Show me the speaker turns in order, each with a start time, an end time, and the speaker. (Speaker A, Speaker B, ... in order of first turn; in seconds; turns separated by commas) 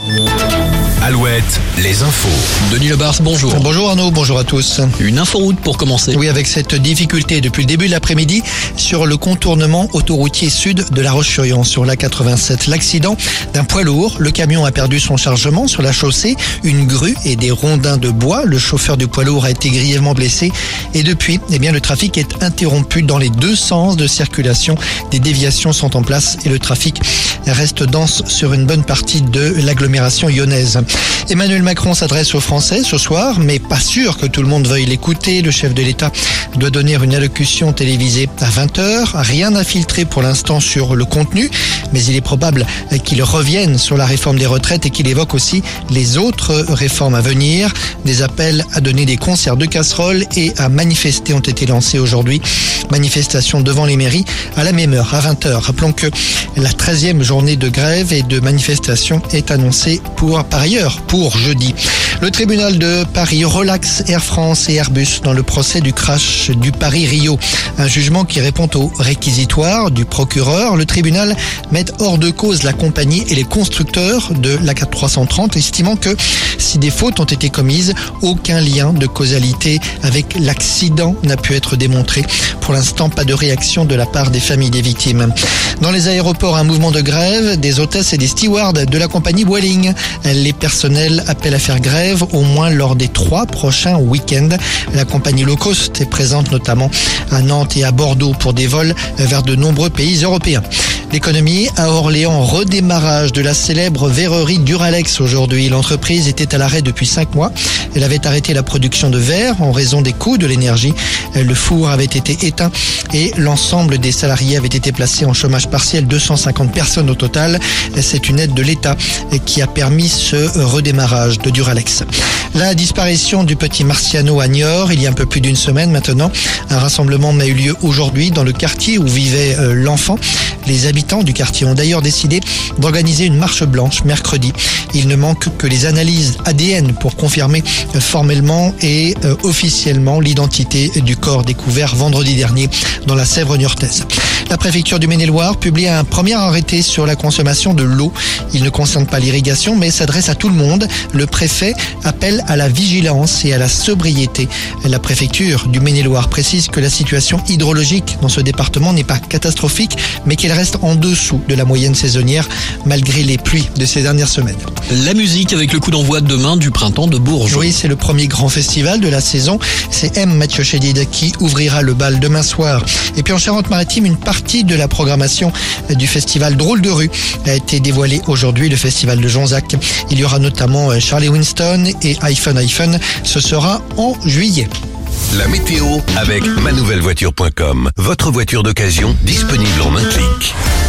Speaker A: 1.0-2.5, Speaker B: 2.6-3.7, Speaker C: 3.5-4.9, Speaker B: 5.0-6.2, Speaker C: 6.1-164.7, Speaker B: 164.9-167.7, Speaker C: 167.5-184.7, Speaker A: 185.3-190.5